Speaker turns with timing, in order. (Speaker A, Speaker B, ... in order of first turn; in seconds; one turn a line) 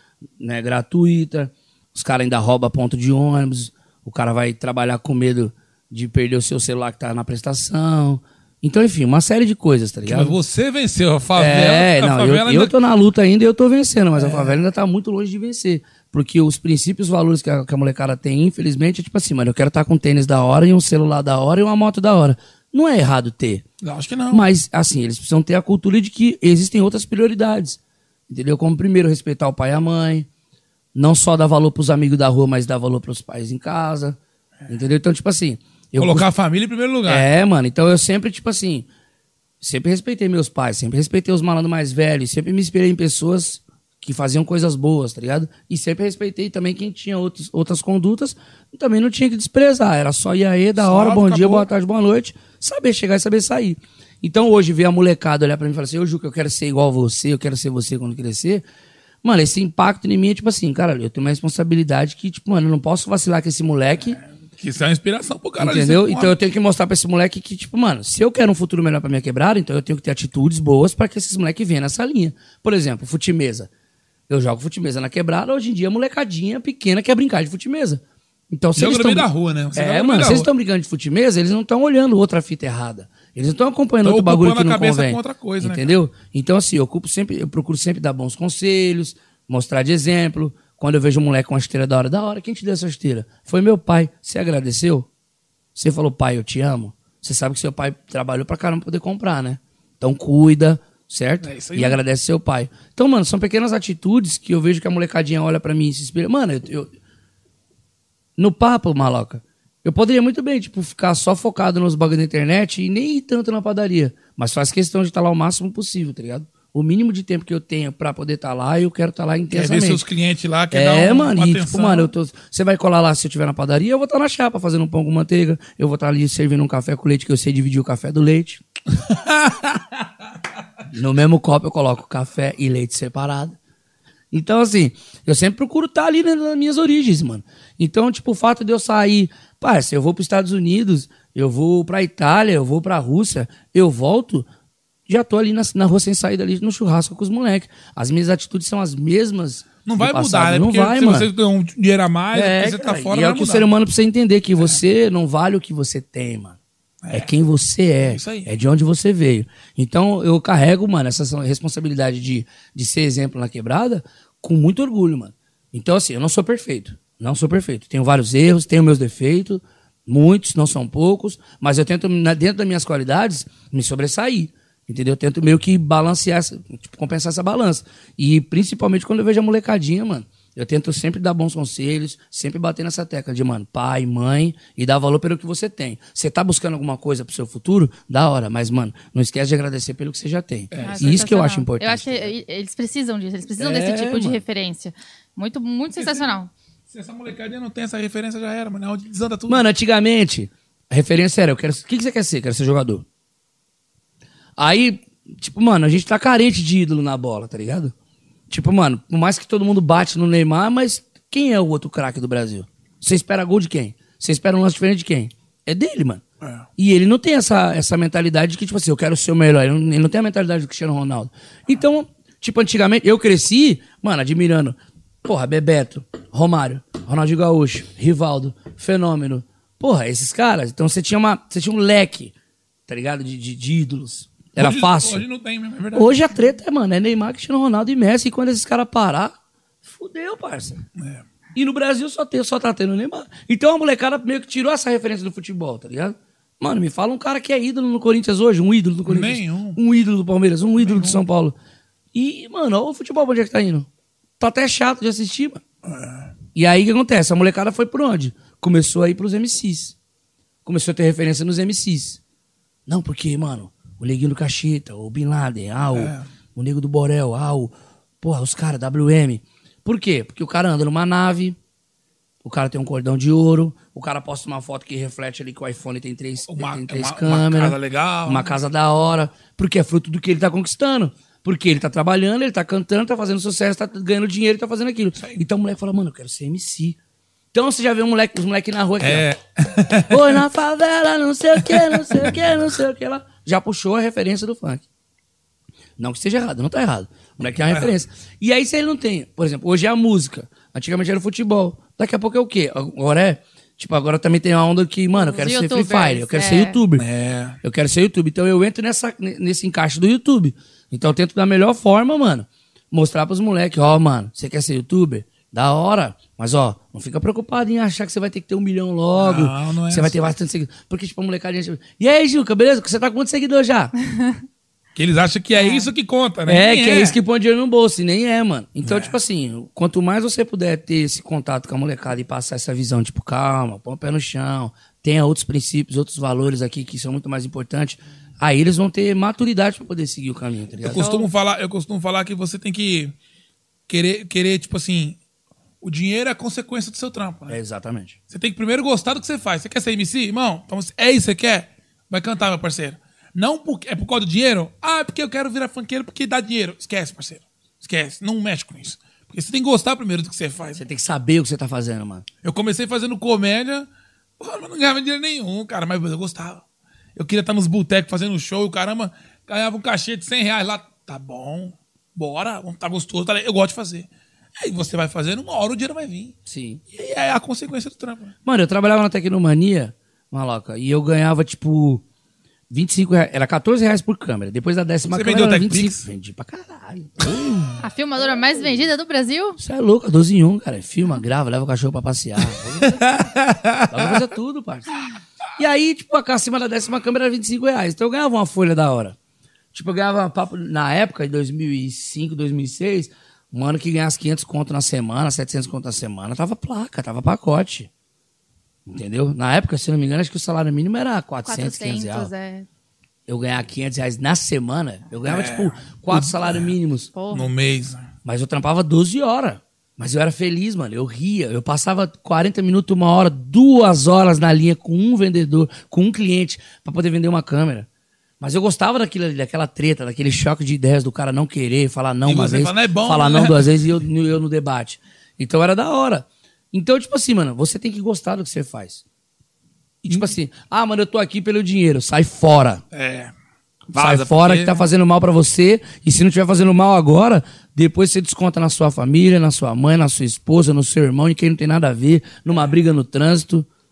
Speaker A: 0.4-10.3
Speaker B: 10.1-12.7
Speaker A: 11.3-23.6
Speaker B: 14.2-14.5
Speaker B: 23.8-24.4
Speaker A: 24.3-30.3
Speaker A: 30.9-36.3
Speaker B: 36.0-37.3
Speaker A: 37.0-38.9
Speaker A: 39.6-58.6
Speaker B: 50.8-51.7
Speaker A: 59.2-64.2
Speaker B: 64.5-66.4
Speaker A: 65.6-73.7
Speaker A: 74.3-95.1
Speaker B: 78.8-80.5
Speaker B: 84.0-85.9
Speaker A: 95.7-106.9
Speaker B: 101.4-102.0
Speaker A: 108.4-120.0
Speaker B: 119.5-122.1
Speaker A: 120.7-128.6
Speaker B: 129.1-129.8
Speaker A: 130.9-133.6
Speaker A: 134.3-144.5
Speaker A: 145.1-151.3
Speaker B: 149.8-153.7
Speaker A: 152.3-156.6
Speaker B: 157.0-157.3
Speaker A: 157.1-192.3
Speaker B: 158.0-158.5
Speaker B: 190.7-191.3
Speaker C: 190.8-196.5
Speaker A: 193.6-194.4
Speaker B: 196.0-196.2
Speaker B: 196.9-199.6
Speaker A: 199.5-203.0
Speaker A: 204.6-207.9
Speaker A: 208.5-216.2
Speaker A: 216.8-232.3
Speaker A: 232.9-235.2
Speaker B: 234.6-236.2
Speaker A: 235.9-240.8
Speaker B: 241.0-241.2
Speaker A: 241.5-251.6
Speaker B: 249.1-249.8
Speaker B: 250.8-251.2
Speaker A: 252.1-253.9
Speaker A: 254.4-255.6
Speaker B: 255.8-256.3
Speaker A: 256.5-259.9
Speaker A: 260.6-262.2
Speaker A: 262.9-271.6
Speaker B: 265.9-266.2
Speaker A: 272.4-287.0
Speaker B: 276.5-278.6
Speaker A: 287.5-289.3
Speaker B: 289.0-290.4
Speaker A: 289.9-294.8
Speaker B: 291.6-292.3
Speaker A: 296.0-307.0
Speaker C: 305.1-306.8
Speaker B: 307.0-307.6
Speaker A: 307.6-323.9
Speaker B: 319.1-320.3
Speaker B: 324.9-327.2
Speaker C: 325.6-325.9
Speaker A: 326.5-341.0
Speaker B: 328.8-329.1
Speaker B: 340.8-343.1
Speaker C: 340.9-341.3
Speaker B: 343.9-345.2
Speaker B: 345.8-347.6
Speaker A: 347.5-348.2
Speaker B: 348.3-360.8
Speaker A: 360.7-362.3
Speaker B: 362.4-363.9
Speaker B: 364.4-366.6
Speaker B: 367.1-374.1
Speaker B: 374.6-376.3
Speaker A: 376.4-376.8
Speaker B: 376.9-378.3
Speaker A: 378.4-382.0
Speaker A: 382.7-387.8
Speaker B: 385.1-386.0
Speaker C: 387.8-389.6
Speaker A: 389.6-393.1
Speaker B: 392.9-394.2
Speaker A: 393.9-394.9
Speaker A: 395.6-399.1
Speaker A: 399.7-407.9
Speaker A: 408.9-412.3
Speaker C: 411.4-412.6
Speaker A: 413.3-417.1
Speaker B: 415.2-416.7
Speaker C: 417.1-417.5
Speaker B: 417.3-418.0
Speaker A: 418.2-427.9
Speaker A: 428.4-439.0
Speaker B: 432.2-433.7
Speaker A: 440.0-442.8
Speaker B: 442.9-443.3
Speaker B: 443.9-444.9
Speaker A: 443.9-453.7